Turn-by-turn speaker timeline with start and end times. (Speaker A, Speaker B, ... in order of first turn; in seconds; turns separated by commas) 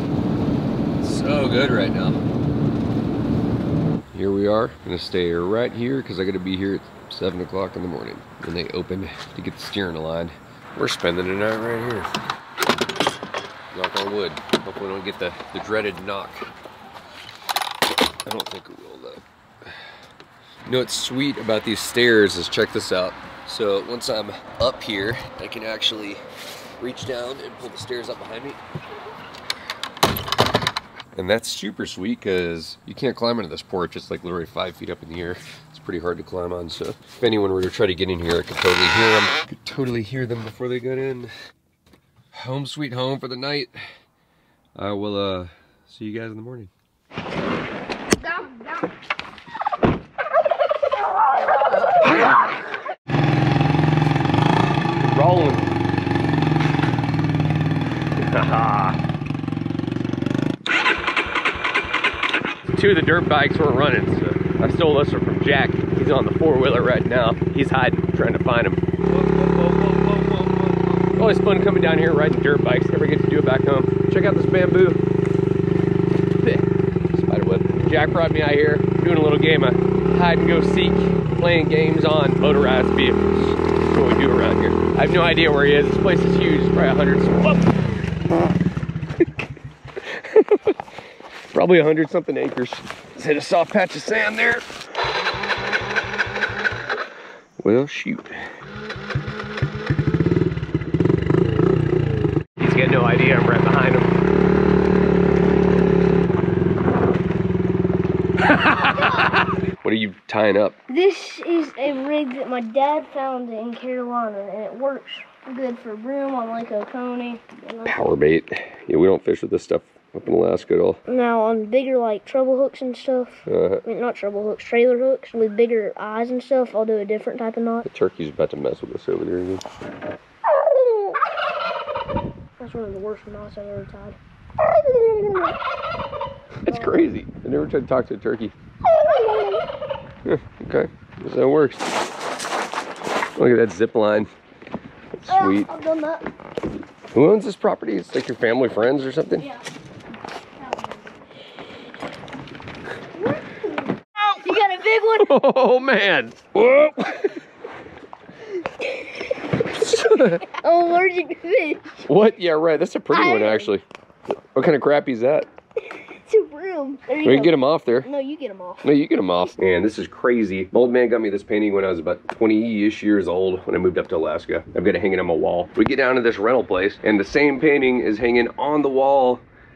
Speaker A: 1.0-2.2, Speaker A: 4.1-12.1, Speaker A: 13.7-16.4, Speaker A: 18.2-19.8, Speaker A: 20.6-26.2, Speaker A: 26.8-28.6, Speaker A: 31.1-41.3, Speaker A: 42.3-43.7, Speaker A: 44.8-46.7, Speaker A: 55.0-55.7, Speaker A: 58.2-59.0, Speaker A: 62.7-70.5, Speaker A: 71.0-75.0, Speaker A: 76.4-87.8, Speaker A: 90.0-90.8, Speaker A: 91.5-94.6, Speaker A: 97.6-98.4, Speaker A: 102.6-104.1, Speaker A: 108.4-110.8, Speaker B: 110.9-118.0, Speaker A: 117.8-121.0, Speaker B: 121.1-127.9, Speaker A: 123.5-123.8, Speaker A: 127.8-129.6, Speaker B: 130.4-131.2, Speaker B: 132.6-135.6, Speaker A: 136.6-138.5, Speaker B: 136.7-137.0, Speaker B: 138.8-139.7, Speaker A: 140.2-141.8, Speaker A: 143.3-144.3, Speaker A: 145.2-145.7, Speaker B: 145.3-146.3, Speaker A: 147.1-149.5, Speaker B: 150.6-151.0, Speaker B: 153.1-155.3, Speaker A: 155.2-157.4, Speaker B: 158.8-159.1, Speaker A: 159.7-160.4, Speaker B: 160.4-161.9, Speaker A: 162.0-163.8, Speaker B: 163.1-163.7, Speaker A: 164.5-165.5, Speaker B: 165.9-168.9, Speaker A: 167.2-168.1, Speaker A: 168.8-179.4